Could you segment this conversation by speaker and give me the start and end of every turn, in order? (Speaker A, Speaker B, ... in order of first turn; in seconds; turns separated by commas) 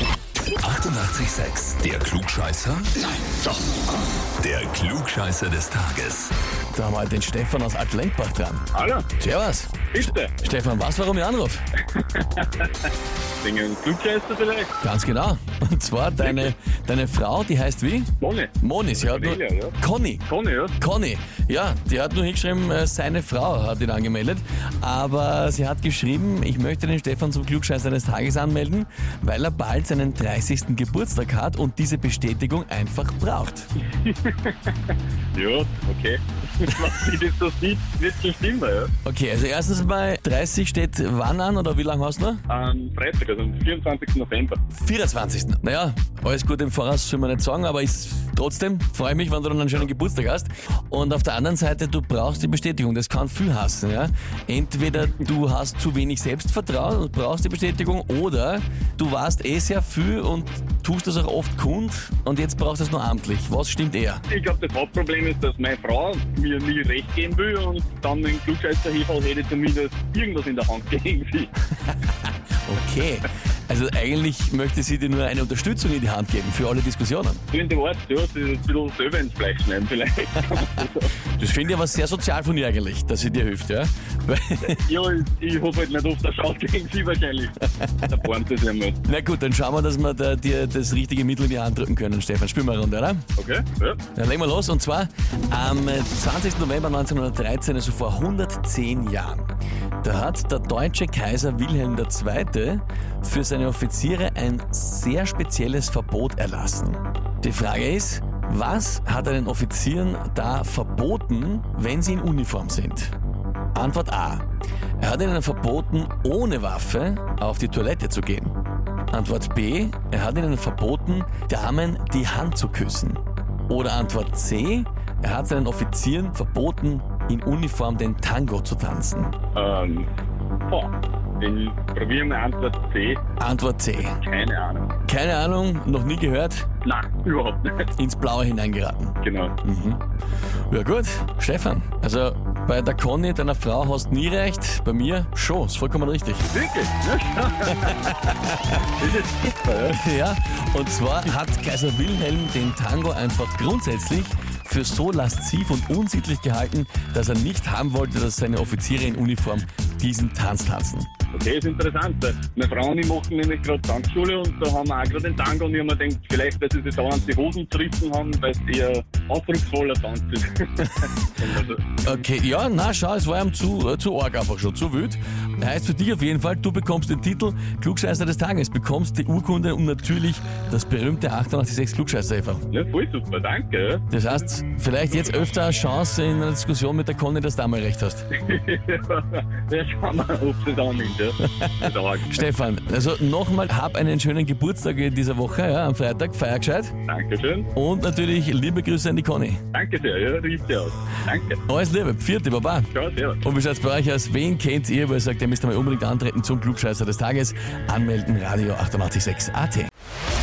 Speaker A: 0.6-3.1, Speaker A: 4.4-6.3, Speaker B: 6.7-8.7, Speaker C: 8.7-9.1, Speaker B: 9.2-11.6, Speaker C: 9.9-10.4, Speaker C: 11.9-12.9, Speaker C: 13.4-14.7, Speaker B: 14.8-20.3, Speaker C: 16.2-16.5, Speaker C: 18.2-19.8, Speaker C: 20.3-20.8, Speaker B: 20.8-33.7, Speaker C: 34.0-38.9, Speaker B: 39.0-42.4, Speaker C: 42.5-44.6, Speaker B: 44.7-64.2, Speaker C: 64.3-71.5, Speaker B: 72.6-77.4, Speaker C: 77.5-81.1, Speaker B: 81.4-84.8, Speaker C: 84.7-89.0, Speaker B: 87.7-88.1, Speaker B: 89.0-93.3, Speaker C: 93.4-94.0, Speaker B: 94.2-99.5, Speaker B: 100.0-113.1, Speaker B: 113.8-114.5, Speaker B: 115.0-118.5, Speaker B: 119.1-129.3, Speaker C: 129.6-130.1, Speaker C: 130.7-133.2, Speaker B: 133.4-134.2, Speaker C: 134.0-134.9, Speaker B: 135.1-136.7, Speaker C: 136.8-137.9, Speaker B: 137.9-140.0, Speaker C: 139.2-139.5, Speaker B: 140.7-146.5, Speaker C: 146.5-148.1, Speaker B: 147.7-148.9, Speaker C: 148.8-150.0, Speaker B: 149.8-161.1, Speaker C: 161.3-171.8, Speaker B: 172.0-182.7, Speaker C: 182.7-184.1, Speaker B: 184.1-188.3, Speaker C: 188.3-192.5, Speaker B: 191.4-196.9, Speaker C: 197.1-197.7, Speaker B: 197.7-199.6, Speaker C: 199.7-201.6, Speaker B: 201.7-202.9, Speaker C: 202.9-203.4, Speaker B: 203.4-209.9